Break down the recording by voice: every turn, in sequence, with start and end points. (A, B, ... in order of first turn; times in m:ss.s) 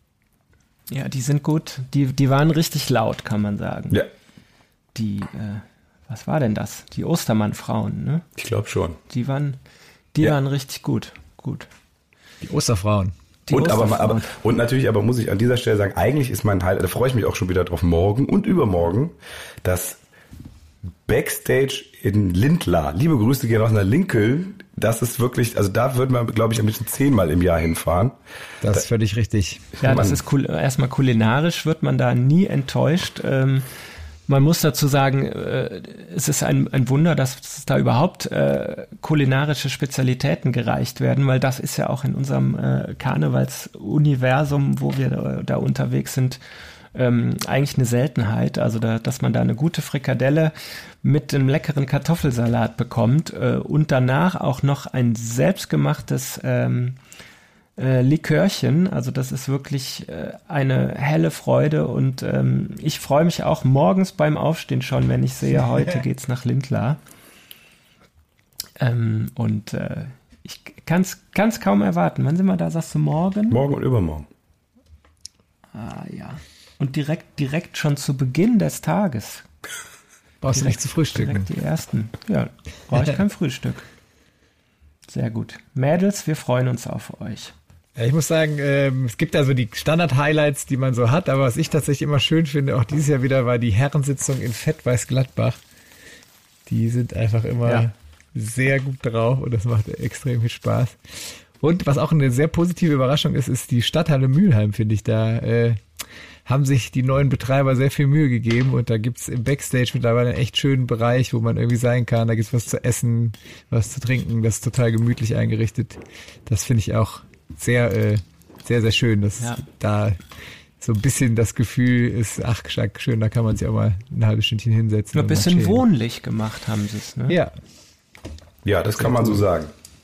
0:00.9-0:04.0 A
0:04.9-0:08.2 A
0:08.4-0:09.0 B
0:09.1-0:09.6 A
0:10.1-0:11.7 A
0:12.4-0:13.1 C
0:13.5-0:14.3 A
0:13.5-0:20.0 B
0:21.0-0:28.1 B
0:28.6-0:29.7 C
0:29.8-0:30.2 B
0:29.8-0:33.7 A
0:34.3-0:46.4 A
0:46.9-0:57.0 A
0:57.8-1:07.0 A
1:08.8-1:13.6 A
1:13.5-1:14.3 B
1:15.7-1:19.4 A
1:20.4-1:21.5 C
1:20.5-1:23.9 A
1:25.1-1:27.5 A
1:28.0-1:35.6 C
1:36.7-1:45.8 C
1:46.4-2:00.2 C
2:00.8-2:05.8 C
2:05.1-2:07.4 A
2:08.6-2:09.7 B